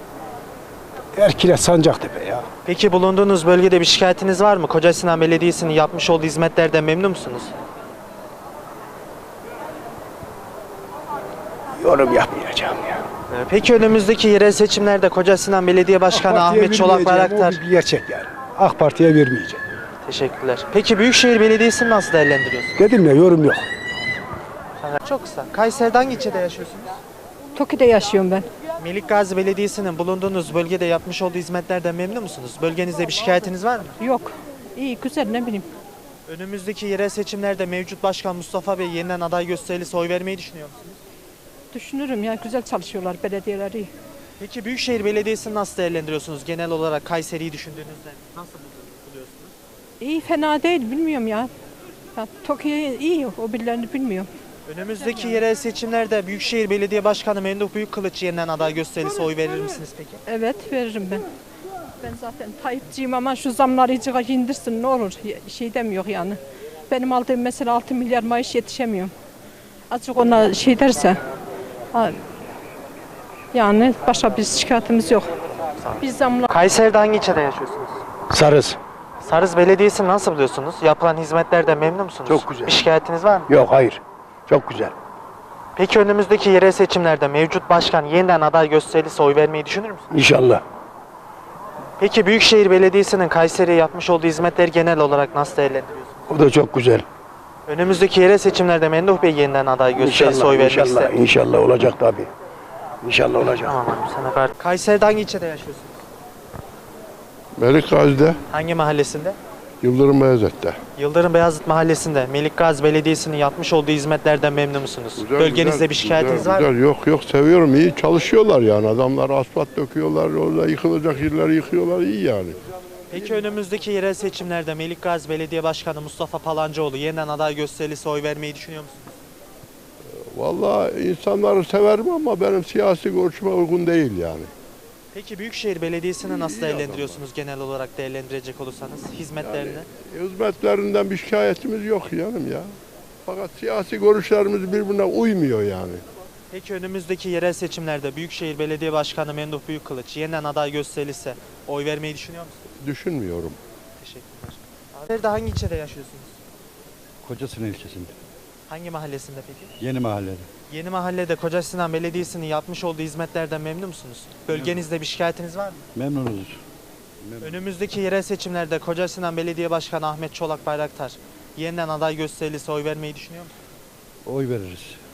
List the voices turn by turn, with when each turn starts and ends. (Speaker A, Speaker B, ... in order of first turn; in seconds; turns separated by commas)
Speaker A: 1.1-2.5, Speaker B: 2.7-7.5, Speaker A: 11.8-13.0, Speaker B: 13.3-17.6, Speaker A: 16.1-19.6, Speaker B: 20.0-22.8, Speaker A: 22.8-23.7, Speaker B: 24.8-27.0, Speaker C: 27.6-28.4, Speaker B: 28.8-34.0, Speaker C: 34.0-35.7, Speaker B: 36.3-41.0, Speaker C: 41.7-43.9, Speaker B: 44.4-49.5, Speaker C: 50.0-51.5, Speaker C: 52.2-54.3, Speaker B: 54.7-60.2, Speaker C: 55.0-55.4, Speaker C: 60.3-61.2, Speaker C: 62.0-66.4, Speaker C: 66.9-69.1, Speaker C: 69.9-71.2, Speaker C: 73.5-75.3, Speaker B: 75.8-78.0, Speaker C: 76.0-76.5, Speaker A: 78.3-78.8, Speaker B: 79.2-83.6, Speaker A: 82.3-82.8, Speaker A: 83.5-84.9, Speaker B: 85.8-90.1, Speaker A: 90.1-90.6, Speaker B: 92.0-96.2, Speaker A: 96.3-97.0, Speaker B: 97.7-101.2, Speaker A: 100.0-102.3, Speaker A: 103.0-103.7, Speaker B: 103.4-106.0, Speaker D: 107.6-108.4, Speaker B: 108.5-109.4, Speaker D: 109.8-110.8, Speaker B: 111.0-116.7, Speaker D: 115.2-122.6, Speaker B: 123.1-129.2, Speaker D: 130.2-134.5, Speaker B: 135.1-139.9, Speaker D: 136.2-137.2, Speaker D: 139.4-142.7, Speaker D: 143.3-146.0, Speaker B: 146.5-152.6, Speaker D: 152.8-153.6, Speaker B: 154.0-156.4, Speaker E: 157.2-158.1, Speaker B: 158.7-159.7, Speaker E: 159.8-160.5, Speaker B: 160.7-165.8, Speaker E: 164.5-164.8, Speaker E: 165.9-166.6, Speaker E: 167.2-167.6, Speaker B: 167.4-173.6, Speaker E: 174.3-175.0